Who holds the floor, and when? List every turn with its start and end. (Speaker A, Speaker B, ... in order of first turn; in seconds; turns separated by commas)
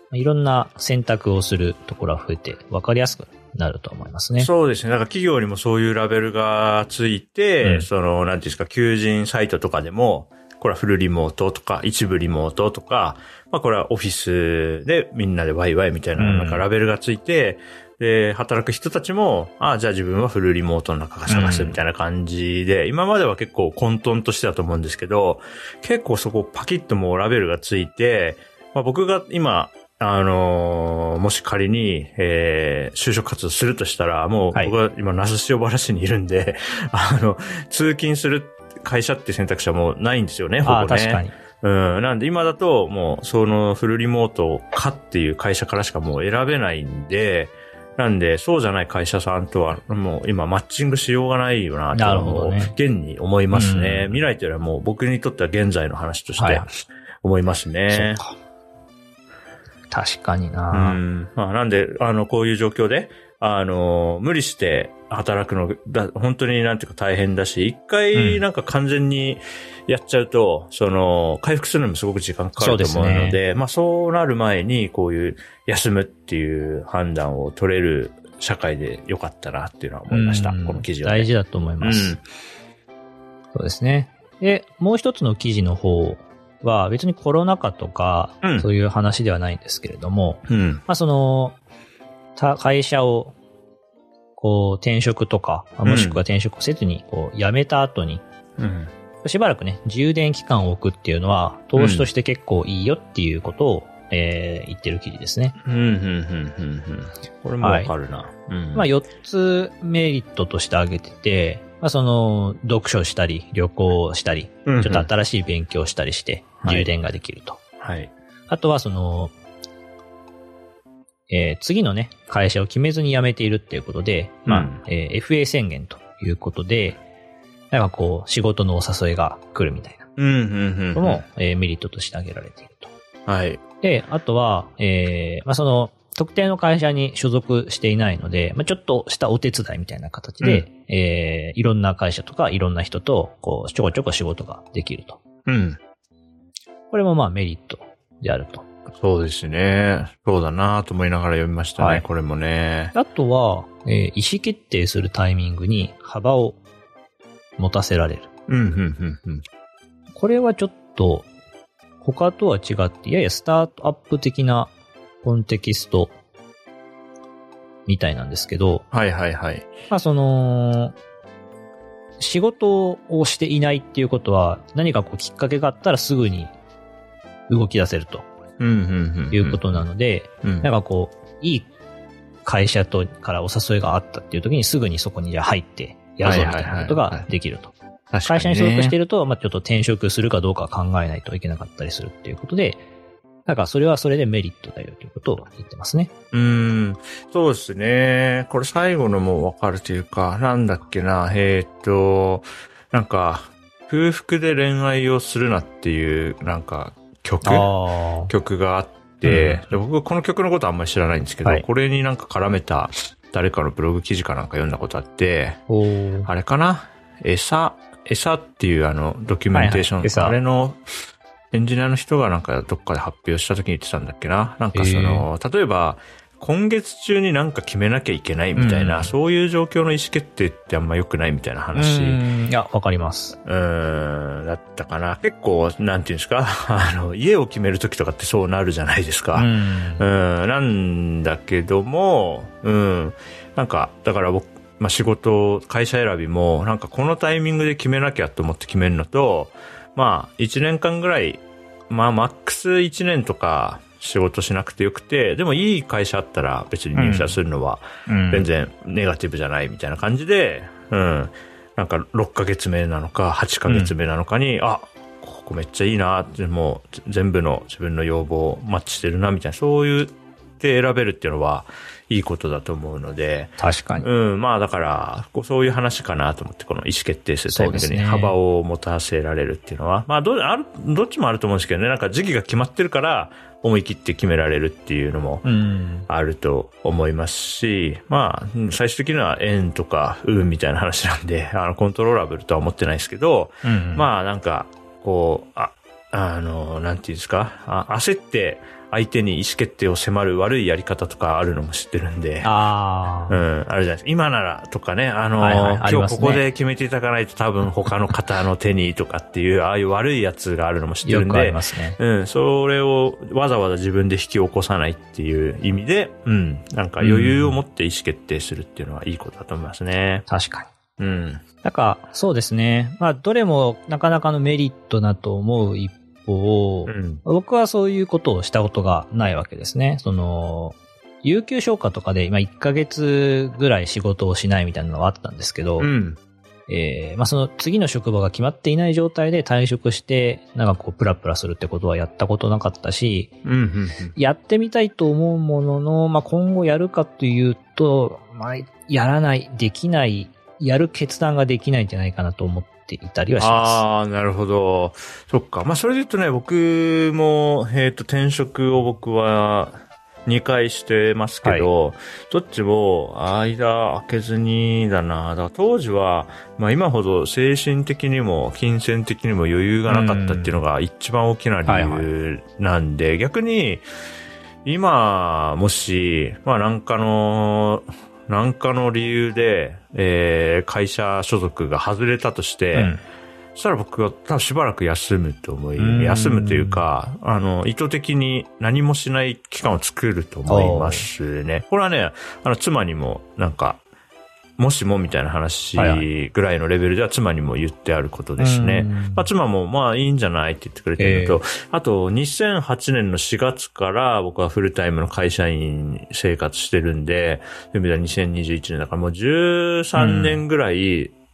Speaker A: 0.1-4.5, Speaker B: 4.4-56.7, Speaker A: 7.6-7.9, Speaker A: 16.2-16.6, Speaker A: 21.3-21.8, Speaker A: 40.6-41.3, Speaker A: 51.9-52.7, Speaker A: 53.5-54.2, Speaker A: 56.4-56.7, Speaker B: 57.2-58.2, Speaker A: 57.9-58.4, Speaker A: 59.9-61.0, Speaker B: 60.7-81.3, Speaker A: 68.2-68.4, Speaker A: 72.6-73.4, Speaker A: 80.1-82.2, Speaker B: 81.8-82.2, Speaker A: 83.5-91.6, Speaker B: 90.5-90.8, Speaker A: 92.4-93.3, Speaker A: 94.4-98.2, Speaker B: 95.8-96.2, Speaker B: 98.6-98.9, Speaker A: 99.2-105.6, Speaker B: 101.8-102.1, Speaker B: 105.6-108.9, Speaker A: 107.6-107.9, Speaker A: 108.8-117.6, Speaker B: 114.7-115.1, Speaker B: 116.6-116.9, Speaker B: 117.8-118.1, Speaker A: 118.5-119.3, Speaker A: 121.3-127.0, Speaker B: 124.5-124.8, Speaker A: 127.7-130.1, Speaker B: 130.2-131.2, Speaker A: 130.9-132.9, Speaker B: 133.3-133.6, Speaker A: 133.8-145.2, Speaker B: 145.5-145.8, Speaker A: 146.9-148.7, Speaker B: 149.0-152.9, Speaker A: 151.8-152.0, Speaker A: 152.9-156.6, Speaker A: 157.6-158.3, Speaker B: 158.5-159.4, Speaker A: 160.2-161.3, Speaker A: 162.0-164.7, Speaker A: 165.2-166.2, Speaker A: 167.9-168.8, Speaker B: 168.9-169.7, Speaker A: 169.9-170.9, Speaker A: 172.2-176.5, Speaker A: 177.5-178.3, Speaker B: 178.6-179.8, Speaker A: 179.3-181.7, Speaker B: 180.4-180.7, Speaker A: 182.5-187.7, Speaker B: 186.2-187.3, Speaker B: 188.1-189.0, Speaker A: 188.3-192.8, Speaker A: 193.5-196.1, Speaker B: 196.3-207.7, Speaker A: 207.4-208.3, Speaker B: 208.3-215.6, Speaker A: 209.2-209.7, Speaker A: 215.7-216.3, Speaker B: 216.3-220.9, Speaker A: 219.5-220.4, Speaker B: 221.5-232.2, Speaker A: 224.8-225.3, Speaker A: 228.6-229.1, Speaker A: 231.7-233.4, Speaker B: 233.4-285.4, Speaker A: 239.3-240.1, Speaker A: 256.9-257.4, Speaker A: 258.1-258.5, Speaker A: 263.7-263.9, Speaker A: 273.6-274.1, Speaker A: 277.5-278.4, Speaker A: 285.4-286.1, Speaker B: 286.1-302.5, Speaker A: 293.6-294.1, Speaker A: 302.4-303.4, Speaker B: 303.3-320.3, Speaker A: 305.4-306.4, Speaker A: 311.0-312.0, Speaker A: 317.0-317.6, Speaker A: 320.3-320.7, Speaker B: 321.0-321.4, Speaker A: 321.6-335.9, Speaker B: 326.9-327.2, Speaker B: 335.8-336.2, Speaker A: 336.7-343.3, Speaker B: 343.4-344.1, Speaker A: 344.2-353.8, Speaker B: 353.4-373.8, Speaker A: 369.9-370.6, Speaker A: 371.7-372.1, Speaker B: 374.6-382.9, Speaker A: 382.8-383.0, Speaker B: 383.6-393.8, Speaker A: 385.8-386.8, Speaker A: 390.5-391.1, Speaker B: 394.6-411.1, Speaker A: 395.8-396.0, Speaker A: 398.4-399.3, Speaker A: 401.0-401.4, Speaker A: 410.0-410.4